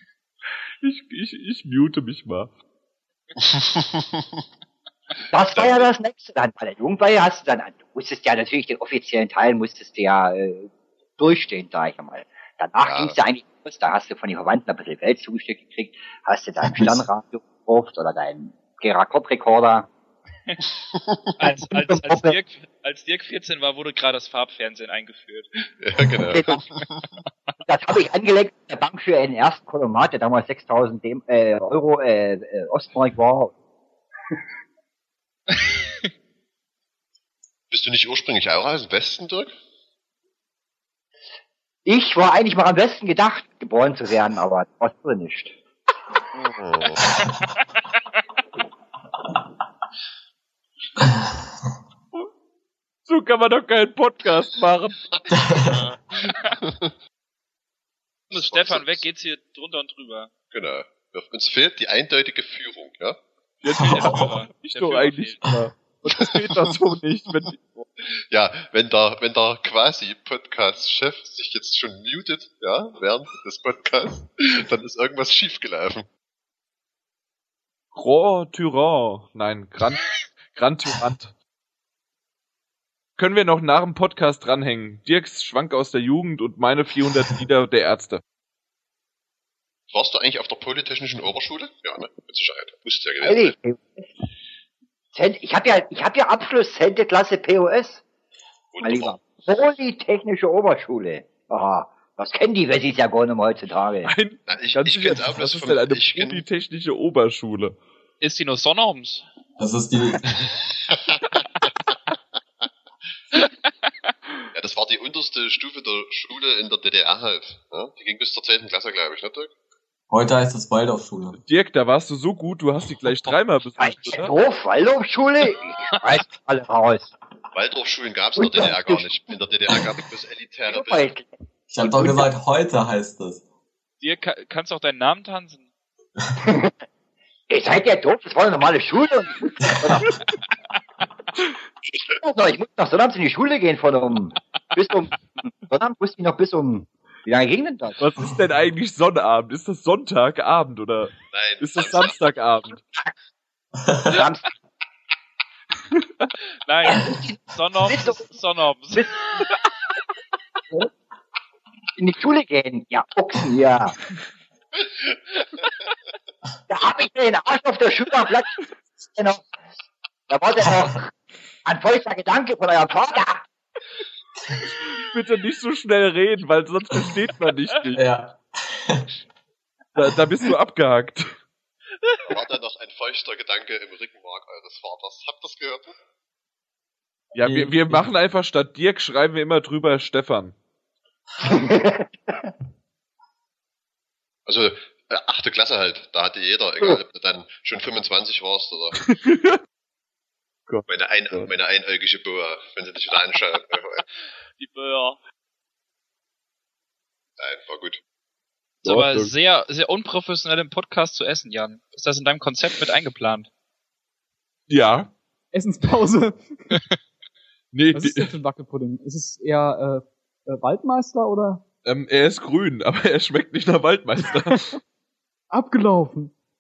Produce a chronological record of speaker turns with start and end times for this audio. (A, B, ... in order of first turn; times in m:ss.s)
0:00.8-0:02.5 A
0:03.4-0:04.2 B
0:05.3-0:19.9 C
0:05.5-0:05.9 B
0:12.8-0:13.2 B
0:21.4-0:25.5 D
0:21.7-0:22.4 C
0:25.8-0:27.0 B
0:26.3-0:26.6 C
0:27.6-0:33.5 C
0:37.7-0:39.5 B
0:41.9-0:45.5 C
0:46.4-0:47.2 B
0:53.1-0:55.0 A
0:58.3-0:59.0 B
0:58.3-1:00.3 D
1:00.5-1:03.2 B
1:03.6-1:07.8 A
1:03.8-1:05.4 D
1:06.2-1:06.7 B
1:08.3-1:16.1 B
1:18.0-1:21.3 A
1:23.2-1:28.2 A
1:29.9-1:33.5 B
1:33.2-1:34.1 C
1:35.1-1:38.0 C
1:38.7-1:39.3 B
1:38.8-1:44.1 C
1:44.0-1:47.8 A
1:44.5-1:46.5 B
1:48.2-1:49.2 D
1:49.6-1:50.3 E
1:54.6-1:59.5 B
2:00.1-2:01.4 E
2:01.4-2:04.3 A
2:03.8-2:07.1 C
2:07.5-2:11.1 B
2:08.4-2:09.1 C
2:10.7-2:11.3 C
2:11.7-2:13.4 E
2:11.8-2:12.3 C
2:14.0-2:15.7 D
2:16.4-2:16.7 C
2:17.5-2:20.2 C
2:21.9-2:28.0 C
2:28.0-2:32.8 A
2:31.3-2:32.3 B
2:34.1-2:34.5 C
2:36.7-2:39.1 D
2:37.9-2:38.2 C
2:42.0-2:44.0 C
2:46.7-2:48.6 C
2:49.2-2:49.4 C
2:50.3-2:51.1 C
2:51.6-2:53.4 C
2:55.0-2:58.0 A
2:57.9-2:59.0 E
3:00.0-3:01.3 A
3:02.3-3:05.9 B
3:07.3-3:10.6 A
3:07.4-3:08.0 E
3:11.5-3:12.5 C
3:14.5-3:19.0 B
3:19.1-3:19.6 A
3:20.7-3:21.4 A
3:20.9-3:24.0 B
3:24.6-3:25.2 D
3:27.4-3:28.0 B
3:28.8-3:33.5 D
3:28.8-3:29.3 A
3:34.7-3:35.1 A
3:35.5-3:36.4 F
3:37.7-3:38.3 A
3:37.9-3:41.6 F
3:41.8-3:44.8 A
3:45.5-3:46.3 F